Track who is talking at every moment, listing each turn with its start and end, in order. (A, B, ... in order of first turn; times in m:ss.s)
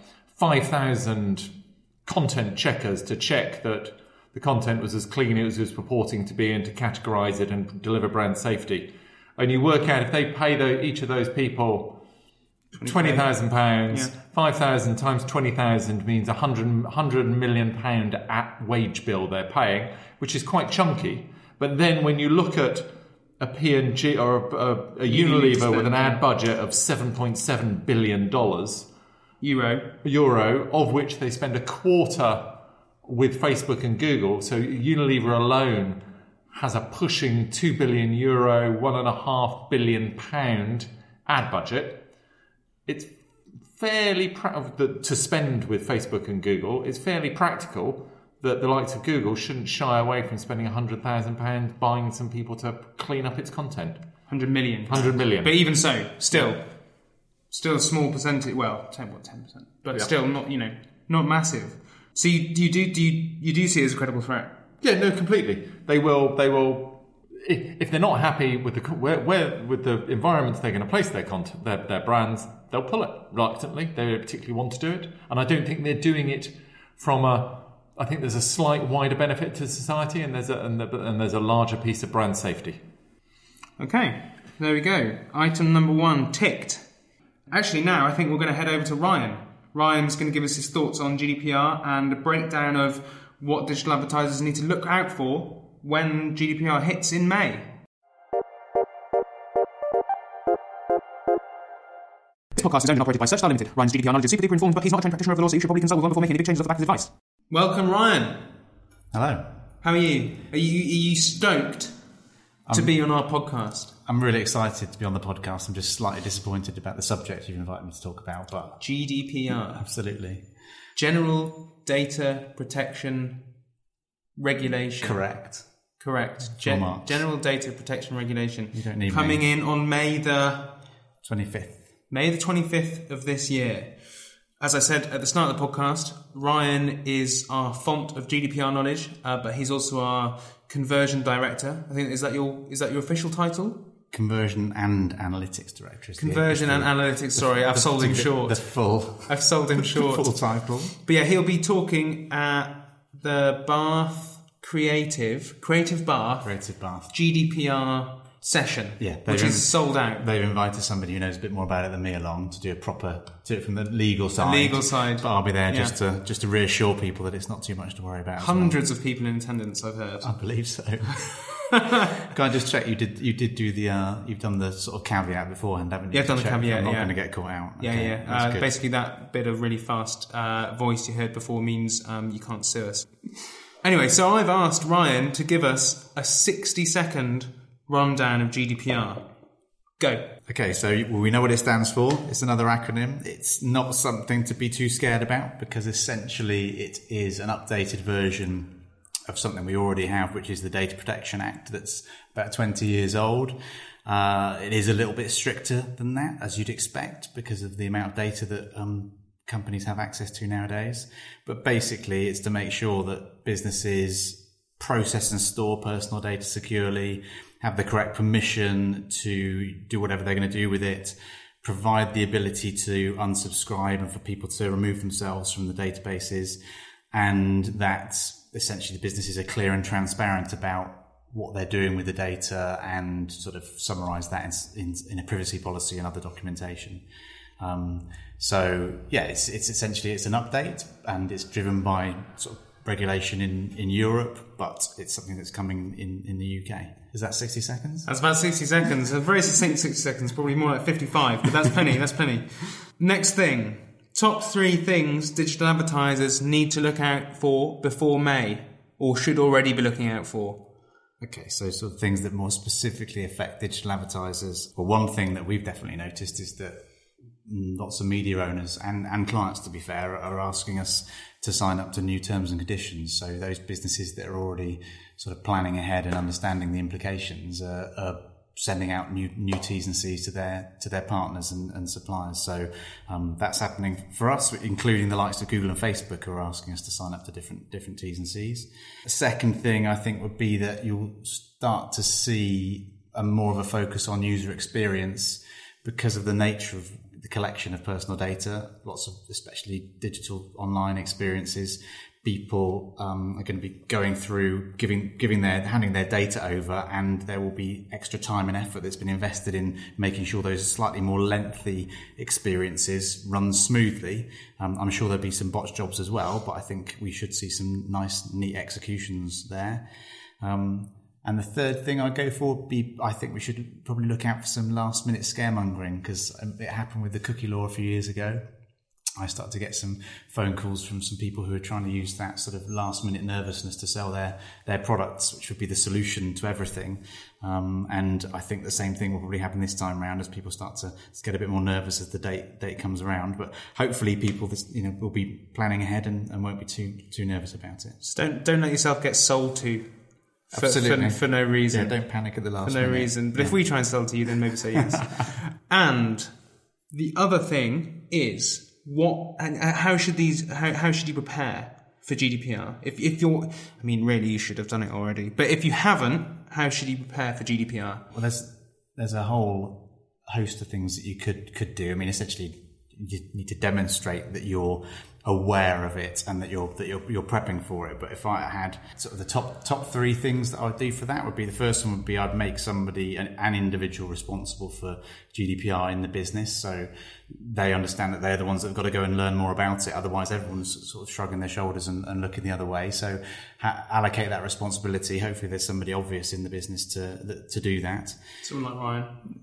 0:00.3-0:01.5 A
0:02.0-0:12.0 A
0:12.7-0:13.3 B
0:12.8-0:22.9 A
0:23.4-0:28.9 A
0:25.0-0:26.2 B
0:29.4-0:29.9 B
0:30.0-0:32.5 A
0:33.0-0:36.0 A
0:36.5-0:42.0 A
0:42.9-0:43.1 A
0:43.7-0:54.0 A
0:54.3-0:56.6 B
0:54.9-0:55.6 A
0:57.5-1:04.5 B
1:04.8-1:22.8 A
1:23.8-1:26.9 B
1:27.5-1:37.7 B
1:42.5-1:48.5 B
1:49.1-1:49.4 C
1:49.8-1:52.0 B
1:52.7-1:52.9 C
1:52.7-1:53.9 B
1:54.0-1:58.8 C
1:58.8-1:59.8 B
1:59.7-2:00.4 C
2:00.9-2:03.4 B
2:04.4-2:10.7 B
2:05.0-2:05.6 C
2:06.6-2:07.2 C
2:08.7-2:09.4 C
2:11.2-2:11.8 C
2:12.1-2:23.8 B
2:24.1-2:30.9 C
2:26.2-2:30.3 B
2:31.0-2:36.5 B
2:36.4-2:37.1 C
2:37.1-2:40.2 B
2:39.0-2:48.8 C
2:44.4-2:45.9 B
2:48.4-2:50.4 B
2:50.2-2:51.5 C
2:52.3-2:58.7 C
2:56.1-2:57.2 B
2:57.8-3:09.2 B
3:10.0-3:10.3 B
3:10.5-3:18.7 C
3:19.3-3:46.6 C
3:47.1-3:57.0 C
3:57.6-4:08.1 C
4:08.0-4:20.6 B
4:21.2-4:26.8 C
4:27.4-5:19.8 C
5:20.4-5:28.4 C
5:29.2-5:48.0 C
5:48.0-5:49.9 B
5:50.5-5:51.9 B
5:50.5-5:53.6 C
5:52.6-5:56.4 B
5:56.9-6:08.0 B
6:08.1-6:38.2 C
6:38.4-6:39.2 B